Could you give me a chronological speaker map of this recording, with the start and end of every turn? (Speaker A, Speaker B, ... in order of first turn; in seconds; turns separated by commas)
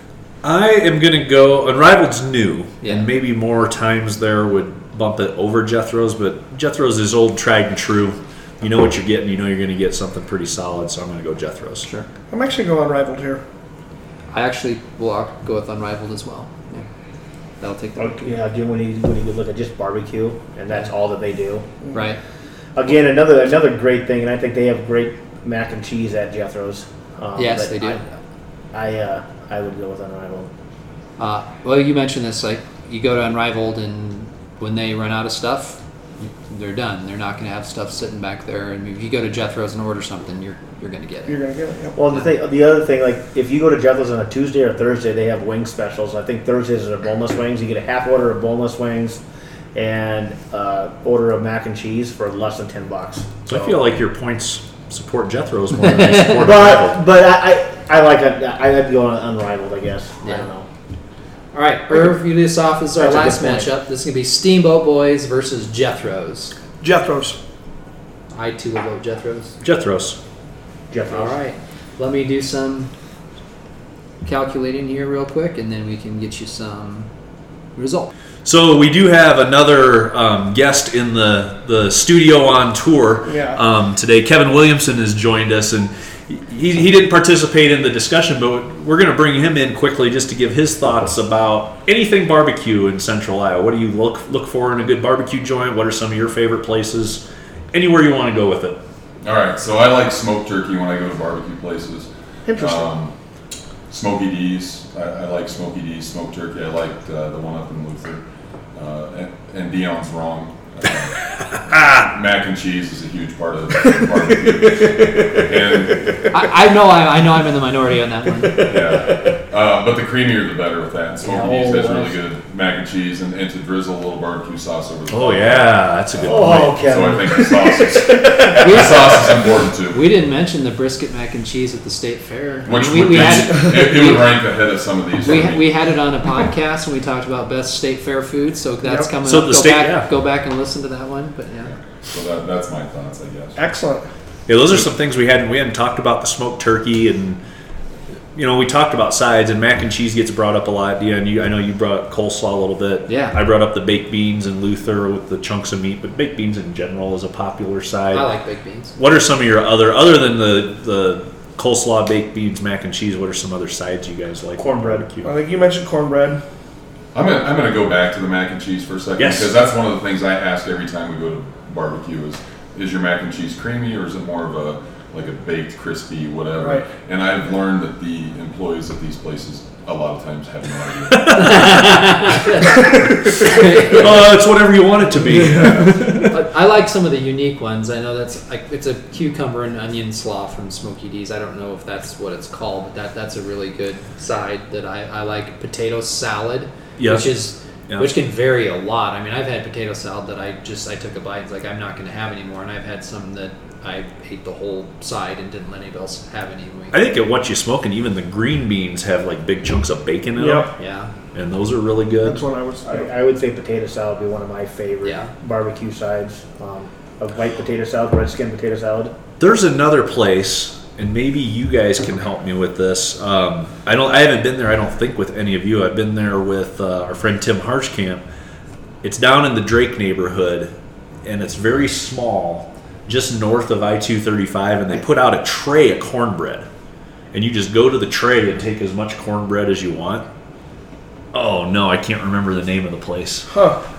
Speaker A: 0.4-11.9, Speaker B: 2.8-3.1, Speaker C: 12.3-13.4, Speaker B: 14.3-16.9, Speaker B: 17.6-18.3, Speaker D: 18.0-21.7, Speaker B: 21.9-22.2, Speaker D: 22.8-28.0, Speaker B: 27.4-28.2, Speaker D: 28.7-30.5, Speaker B: 31.2-41.4, Speaker C: 41.3-42.0, Speaker D: 42.0-49.2, Speaker D: 49.8-53.8, Speaker A: 53.5-57.0, Speaker B: 55.8-56.5, Speaker D: 56.4-60.7, Speaker B: 61.5-66.5, Speaker D: 63.0-63.7, Speaker C: 66.8-67.4, Speaker B: 68.3-69.6, Speaker A: 69.6-70.2, Speaker D: 70.9-71.3, Speaker B: 71.1-72.9, Speaker B: 74.2-77.1, Speaker B: 77.8-78.1, Speaker A: 78.5-98.8, Speaker C: 83.3-83.6, Speaker E: 99.2-103.1, Speaker C: 102.5-102.9, Speaker E: 103.9-108.2, Speaker E: 108.7-111.2, Speaker E: 111.8-116.2, Speaker C: 114.8-115.8, Speaker B: 116.3-118.8, Speaker E: 118.6-130.1, Speaker D: 121.2-122.1, Speaker A: 125.1-126.8, Speaker D: 126.2-128.7, Speaker B: 128.6-129.2, Speaker B: 129.9-134.3, Speaker E: 132.7-135.7, Speaker B: 135.2-141.7, Speaker C: 138.8-139.1, Speaker A: 139.2-140.1, Speaker E: 141.7-143.6, Speaker C: 143.6-144.1, Speaker A: 144.5-147.4, Speaker A: 148.3-158.3, Speaker B: 153.1-153.4, Speaker B: 158.1-158.9, Speaker A: 159.0-165.3, Speaker D: 164.6-165.1, Speaker C: 165.2-166.4, Speaker E: 167.1-181.8, Speaker A: 169.2-169.5, Speaker C: 176.6-176.9, Speaker A: 181.1-182.2, Speaker B: 181.3-182.9, Speaker B: 183.4-184.3, Speaker A: 183.9-186.4, Speaker B: 185.8-206.9, Speaker A: 197.0-197.4, Speaker A: 197.9-198.1, Speaker A: 206.9-210.7, Speaker C: 210.4-210.7, Speaker B: 210.8-211.1, Speaker A: 211.3-212.5, Speaker C: 212.2-213.1, Speaker D: 212.8-219.1, Speaker B: 215.1-215.3, Speaker A: 219.4-228.2, Speaker A: 229.0-230.7, Speaker A: 231.2-236.7, Speaker A: 237.3-240.3, Speaker A: 241.3-243.5, Speaker C: 243.5-243.8